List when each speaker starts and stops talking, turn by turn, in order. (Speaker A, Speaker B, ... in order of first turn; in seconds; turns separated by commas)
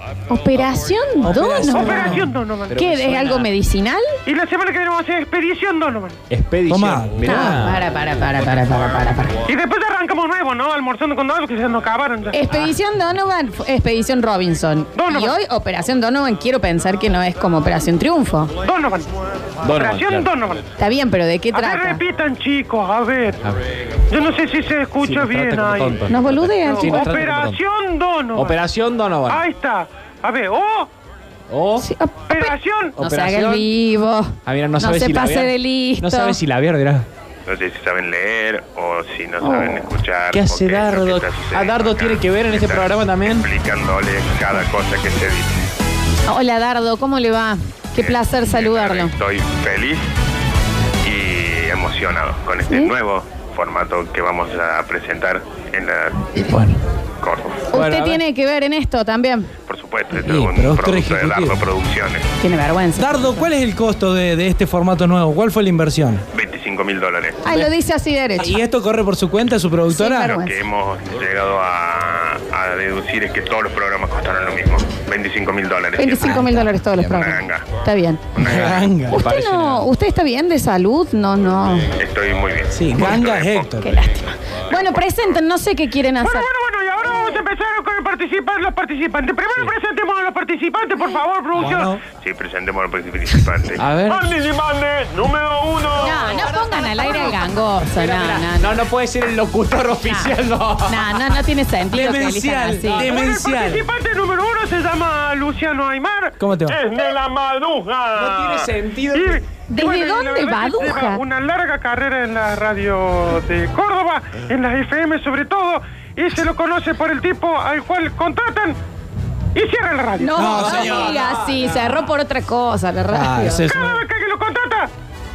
Speaker A: 0.3-2.2, Speaker B: 1.2-2.3, Speaker C: 1.7-2.8, Speaker D: 2.7-3.5, Speaker A: 2.8-4.2, Speaker C: 4.2-6.2, Speaker D: 6.3-7.8, Speaker B: 6.7-7.6, Speaker A: 7.2-9.4, Speaker C: 9.4-12.6, Speaker A: 12.3-18.5, Speaker C: 14.9-15.3, Speaker C: 18.6-19.1, Speaker D: 19.6-20.3, Speaker C: 19.7-20.7, Speaker A: 20.8-22.0, Speaker C: 21.5-23.4, Speaker C: 24.1-26.1, Speaker D: 25.0-27.6, Speaker A: 26.1-27.0, Speaker C: 26.6-28.6, Speaker D: 28.3-29.4, Speaker C: 29.2-30.9, Speaker D: 31.5-31.9, Speaker A: 31.8-36.4, Speaker C: 32.3-33.0, Speaker D: 33.0-33.7, Speaker D: 34.4-37.0, Speaker E: 37.5-45.5, Speaker A: 39.4-39.8, Speaker D: 40.3-43.5, Speaker A: 46.3-49.1, Speaker E: 48.0-50.1, Speaker E: 51.0-56.3, Speaker D: 56.4-56.8, Speaker E: 57.2-57.7, Speaker A: 57.7-59.5, Speaker D: 57.7-58.2, Speaker E: 59.7-62.3, Speaker B: 60.2-61.6, Speaker A: 62.4-63.5, Speaker B: 63.0-66.2, Speaker E: 66.3-67.4, Speaker A: 67.4-68.6, Speaker B: 68.4-70.4, Speaker A: 69.9-70.6, Speaker E: 70.3-77.7, Speaker A: 76.0-78.3, Speaker E: 78.3-78.9, Speaker B: 78.4-79.2, Speaker D: 78.5-79.9, Speaker A: 79.1-81.9, Speaker E: 82.0-83.8, Speaker B: 82.7-83.9, Speaker A: 83.8-86.5, Speaker E: 84.7-85.4, Speaker C: 86.2-92.0, Speaker B: 91.6-92.0, Speaker E: 92.1-94.1, Speaker D: 93.8-94.3, Speaker C: 94.1-96.2, Speaker A: 96.0-98.7, Speaker D: 98.0-101.0, Speaker A: 100.0-100.3, Speaker A: 100.8-103.2, Speaker B: 101.9-103.8, Speaker C: 102.9-118.8, Speaker B: 106.4-106.8, Speaker D: 108.1-109.4, Speaker A: 109.7-111.2, Speaker C: 119.5-120.8, Speaker A: 120.2-123.7, Speaker B: 120.3-121.2, Speaker D: 120.9-121.3, Speaker B: 123.1-124.0, Speaker C: 123.7-124.9